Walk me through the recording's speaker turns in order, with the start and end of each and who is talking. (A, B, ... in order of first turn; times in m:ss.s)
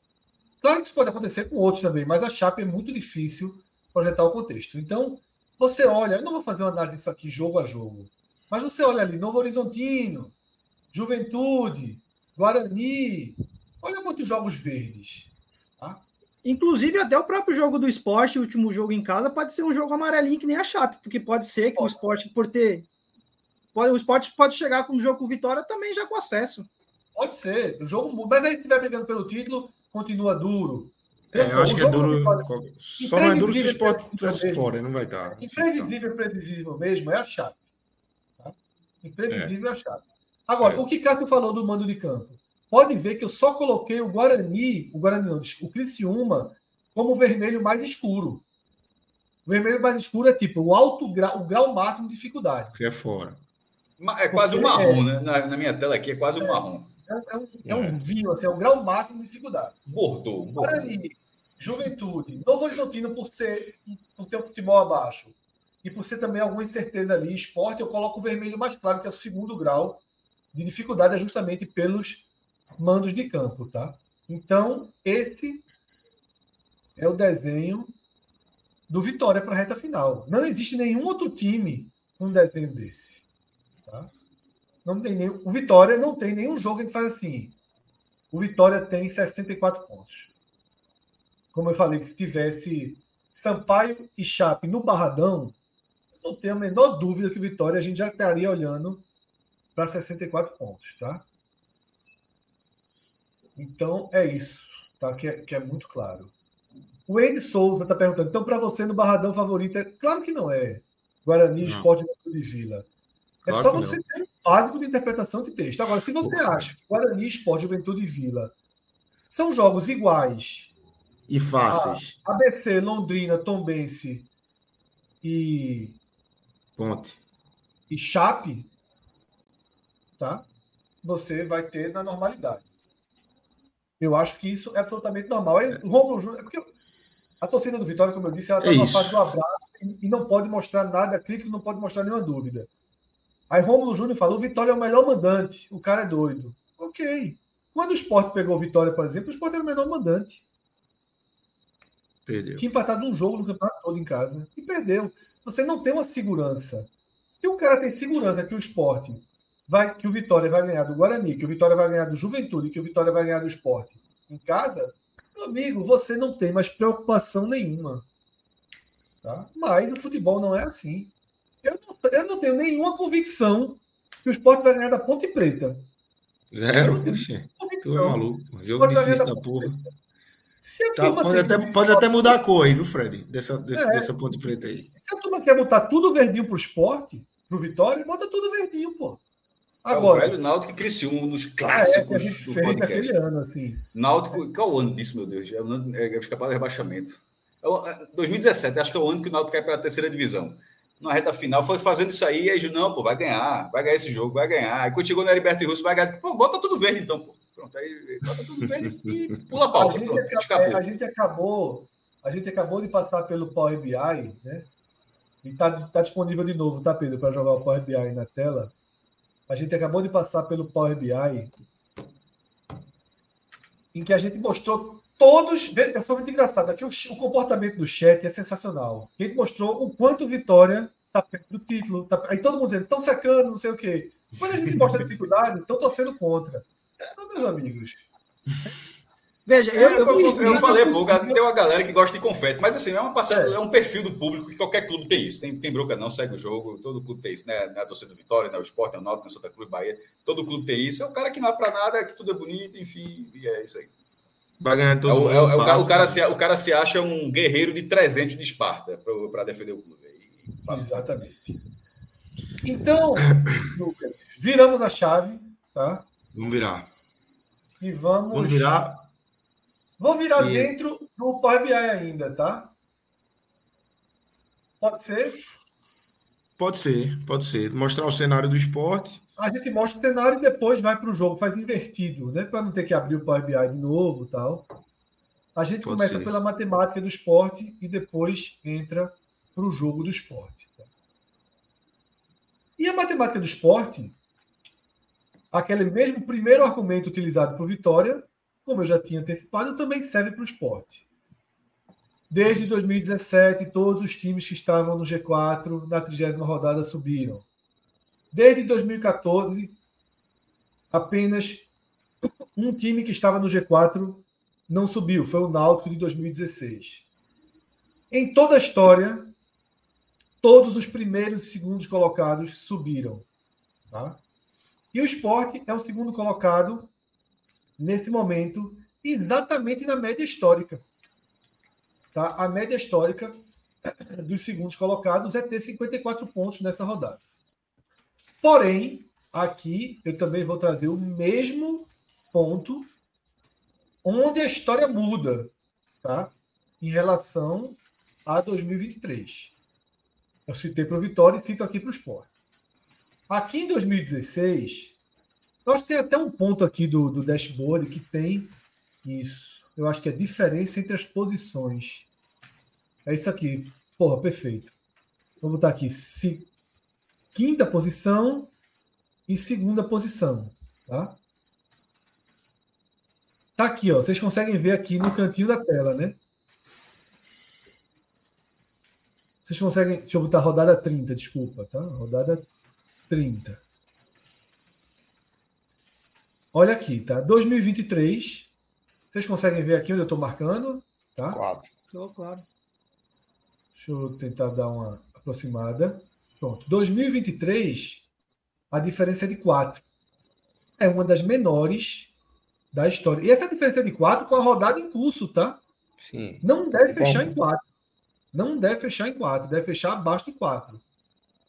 0:00.6-0:10.3 A
0:10.9-0:16.0 A
0:16.4-0:22.8 B
0:23.7-0:26.7 B
0:27.2-0:34.8 A
0:31.3-0:35.9 C
0:35.4-0:37.6 A
0:38.4-0:48.4 A
0:49.4-0:52.7 A
0:52.7-0:53.4 C
0:54.0-0:56.9 D
0:54.3-0:55.0 A
0:56.4-0:59.8 A
0:57.6-0:58.0 C
0:59.9-1:01.0 D
1:00.6-1:10.0 A
1:10.5-1:12.2 A
1:12.8-1:15.6 A
1:17.0-1:17.9 A
1:18.9-1:23.2 A
1:23.8-1:24.1 A
1:24.8-1:27.5 A
1:28.3-1:30.3 A
1:31.5-1:35.6 A
1:36.2-1:39.0 A
1:39.8-1:41.2 A
1:43.6-1:46.3 A
1:47.1-1:52.8 A
1:51.6-1:51.9 C
1:53.4-1:54.0 C
1:53.4-1:58.5 A
1:56.2-1:56.7 C
1:59.3-2:00.7 A
2:01.3-2:02.2 C
2:01.7-2:04.3 A
2:05.2-2:06.0 A
2:06.8-2:07.2 C
2:07.9-2:08.7 A
2:10.2-2:10.5 A
2:11.0-2:12.6 A
2:14.0-2:16.7 A
2:17.4-2:22.7 A
2:18.6-2:19.3 C
2:23.5-2:30.4 A
2:32.3-2:32.6 C
2:32.6-2:48.0 A
2:49.2-2:51.1 A
2:51.6-2:55.9 A
2:56.5-2:59.9 C
2:56.7-2:58.2 A
2:58.8-2:59.7 A
3:00.6-3:02.4 A
3:01.0-3:04.9 C
3:03.7-3:04.1 A
3:04.9-3:09.2 A
3:09.8-3:10.4 A
3:09.9-3:13.2 D
3:11.6-3:13.8 A
3:13.9-3:30.8 D
3:28.6-3:34.7 A
3:35.4-3:38.7 A
3:39.5-3:41.5 A
3:43.9-3:58.0 A
3:59.4-4:00.8 B
3:59.7-4:01.4 A
3:59.9-4:13.9 D
4:03.3-4:03.6 A
4:14.6-4:16.4 C
4:15.0-4:21.1 D
4:20.7-4:21.6 A
4:22.6-4:26.1 A
4:26.3-4:26.9 C
4:27.8-4:28.8 A
4:28.3-4:29.1 C
4:30.0-4:32.7 A
4:30.4-4:30.7 C
4:34.8-4:35.4 A
4:36.6-4:39.2 C
4:39.4-4:44.6 A
4:45.5-4:50.8 A
4:45.8-4:46.3 C
4:52.8-4:54.1 A
4:55.5-5:01.0 A
5:02.3-5:07.4 A
5:08.3-5:09.8 A
5:10.9-5:11.7 A
5:12.2-5:17.0 A
5:18.1-5:19.3 A
5:20.4-5:23.2 A
5:23.9-5:24.2 A
5:24.9-5:26.9 A
5:27.8-5:30.8 A
5:32.1-5:37.2 A
5:38.4-5:42.9 A
5:44.0-5:49.5 A
5:50.5-5:52.3 A
5:53.3-5:55.0 A
5:55.6-6:02.1 A
6:03.0-6:04.7 A
6:05.4-6:06.5 A
6:07.3-6:08.5 A
6:09.3-6:11.2 A
6:13.6-6:16.2 A
6:19.4-6:22.5 A
6:23.1-6:23.6 A
6:26.5-6:28.5 A
6:29.1-6:31.4 A
6:31.3-6:31.7 C
6:31.9-6:32.4 B
6:33.7-6:38.0 A
6:38.7-6:39.8 A
6:40.8-6:42.1 A
6:42.7-6:45.6 A
6:46.0-6:47.4 C
6:46.4-6:47.6 A
6:48.3-6:50.8 A